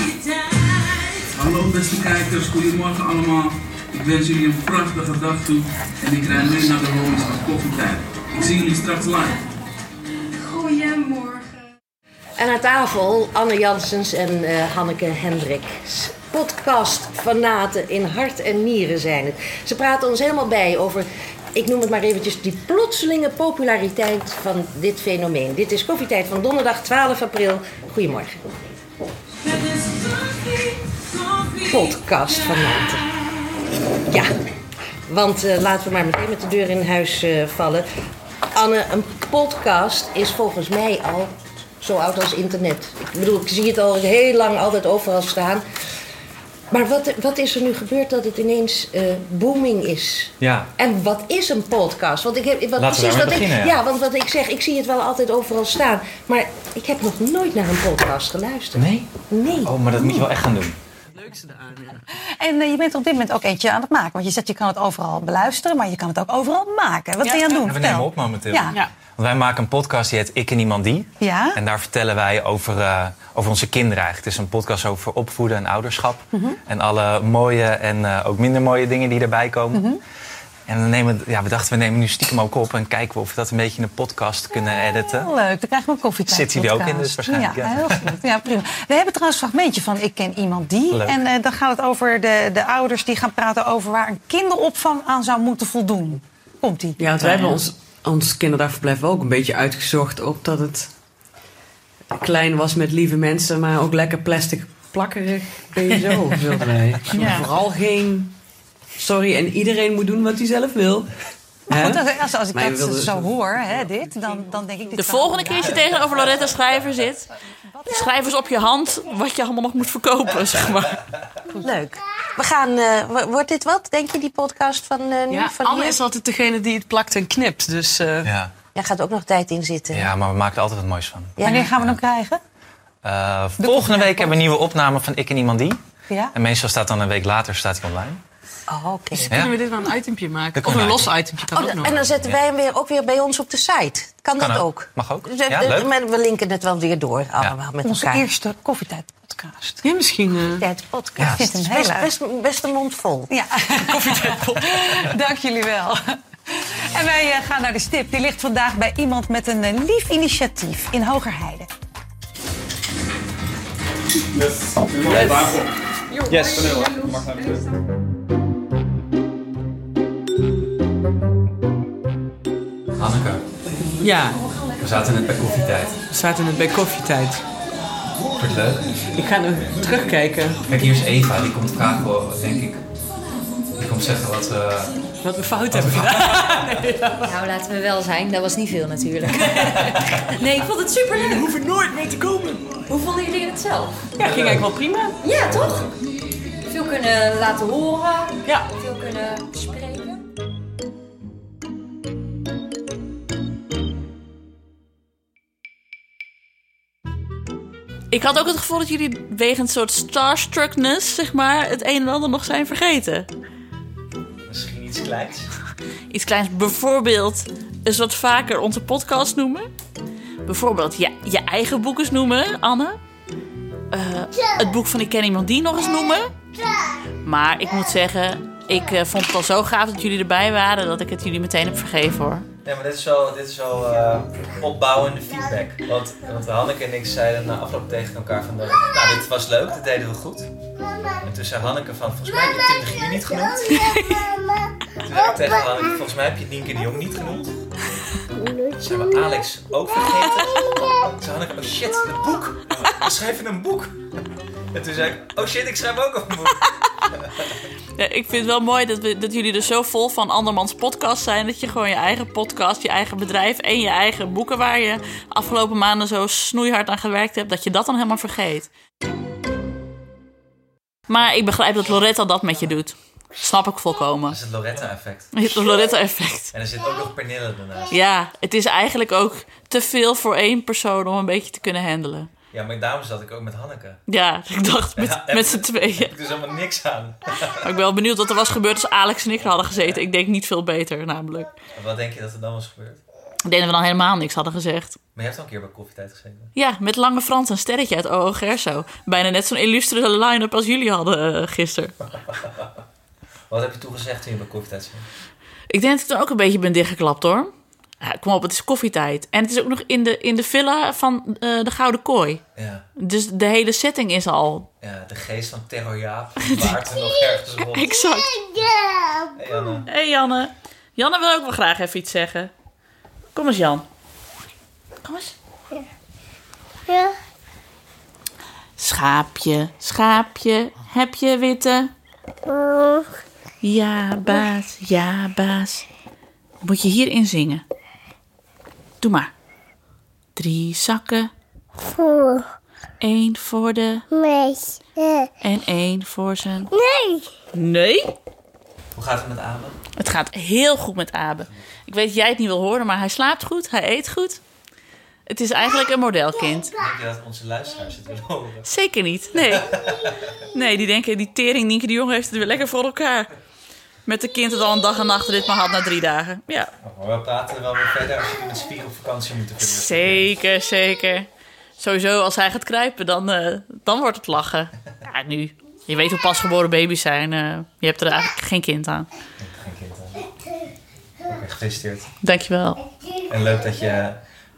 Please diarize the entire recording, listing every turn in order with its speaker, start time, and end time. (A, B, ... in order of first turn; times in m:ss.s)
0:01.3-0:09.4 A
0:10.7-0:11.2 B
0:12.4-0:28.5 C
0:31.6-0:33.1 C
0:35.1-0:37.9 C
0:38.5-0:45.6 C
0:46.7-1:00.2 C
0:50.4-0:50.7 D
0:52.8-0:53.8 D
0:58.7-1:00.8 D
1:00.0-1:00.3 E
1:01.1-1:02.0 F
1:02.1-1:08.8 E
1:07.2-1:07.6 F
1:07.6-1:19.8 D
1:11.2-1:11.6 E
1:16.3-1:16.6 E
1:19.7-1:20.0 E
1:20.7-1:25.3 D
1:24.6-1:37.1 E
1:26.3-1:28.0 D
1:30.9-1:31.2 D
1:37.0-1:40.9 F
1:42.1-1:48.3 F
1:47.1-1:47.5 E
1:49.0-1:51.1 F
1:51.7-1:53.3 F
1:51.7-1:56.1 E
1:54.9-1:57.3 G
1:57.6-1:58.0 E
1:57.8-2:01.0 G
2:01.6-2:06.0 C
2:05.3-2:08.3 F
2:08.2-2:08.5 D
2:08.7-2:10.1 C
2:09.9-2:12.0 D
2:11.4-2:11.7 C
2:11.4-2:12.4 E
2:13.0-2:15.8 D
2:13.6-2:14.4 E
2:16.3-2:18.2 D
2:18.7-2:19.3 C
2:19.2-2:19.5 D
2:19.3-2:22.0 B
2:19.5-2:20.3 F
2:20.5-2:21.2 D
2:21.5-2:28.2 C
2:22.0-2:22.4 D
2:24.4-2:25.9 D
2:27.8-2:29.8 E
2:29.8-2:30.7 F
2:30.5-2:33.3 C
2:31.2-2:32.1 E
2:33.3-2:36.0 E
2:33.7-2:35.0 F
2:36.9-2:41.7 E
2:44.8-2:45.7 A
2:45.2-2:45.6 B
2:46.1-2:47.6 B
2:46.3-2:47.5 A
2:53.0-2:53.4 D
2:54.0-2:54.4 F
2:54.8-2:56.0 D
2:56.1-2:57.4 F
2:58.4-2:59.1 D
2:59.1-3:00.6 F
3:00.6-3:02.8 D
3:03.7-3:05.0 D
3:05.2-3:07.3 F
3:05.7-3:06.7 D
3:07.2-3:14.0 B
3:11.1-3:12.6 F
3:14.1-3:15.2 F
3:14.2-3:14.6 D
3:15.2-3:15.8 B
3:15.5-3:15.9 D
3:16.6-3:20.2 B
3:18.4-3:18.7 F
3:28.1-3:33.3 G
3:34.5-3:35.5 D
3:36.1-3:39.7 G
3:40.4-3:43.0 G
3:43.9-3:46.3 G
3:47.2-3:52.4 G
3:52.6-4:00.5 D
4:01.2-4:03.9 D
4:03.7-4:04.3 G
4:05.0-4:07.6 D
4:08.4-4:08.7 H
4:08.8-4:13.9 D
4:14.7-4:16.6 D
4:18.0-4:28.7 G
4:31.1-4:34.4 G
4:34.3-4:35.3 D
4:35.3-4:36.5 G
4:36.5-4:38.0 D
4:37.9-4:42.3 G
4:42.5-4:44.0 D
4:44.1-4:46.1 G
4:45.0-4:47.6 D
4:47.6-4:51.5 G
4:49.4-4:50.0 D
4:51.7-4:53.0 D
4:53.4-4:55.0 G
4:55.2-4:56.5 D
4:56.5-5:02.0 G
5:02.4-5:02.7 D
5:03.5-5:05.0 D
5:05.7-5:12.4 G
5:12.6-5:12.8 D
5:13.0-5:14.7 G
5:14.8-5:17.9 D
5:17.7-5:18.4 G
5:18.4-5:19.8 H
5:19.4-5:19.9 D
5:19.9-5:22.5 G
5:23.3-5:23.8 G
5:25.0-5:25.4 G
5:26.9-5:27.1 H
5:28.8-5:31.9 G
5:32.5-5:33.1 H
5:33.6-5:35.8 G
5:36.6-5:37.6 G
5:39.0-5:39.3 G
5:40.4-5:41.3 G
5:41.9-5:42.4 H
5:43.0-5:44.1 G
5:44.1-5:45.2 H
5:45.4-5:46.7 G
5:46.7-5:47.3 H
5:47.5-5:48.2 G
5:48.9-5:49.8 D
5:50.0-5:54.4 G
5:55.3-5:56.7 G
5:56.8-5:58.7 D
5:58.6-5:59.7 G
5:59.5-6:00.1 D
6:00.5-6:03.3 G
6:04.0-6:06.7 G
6:06.8-6:10.3 D
6:09.6-6:19.1 G
6:19.4-6:20.3 D
6:21.2-6:22.1 D
6:22.2-6:22.8 G
6:23.2-6:24.2 D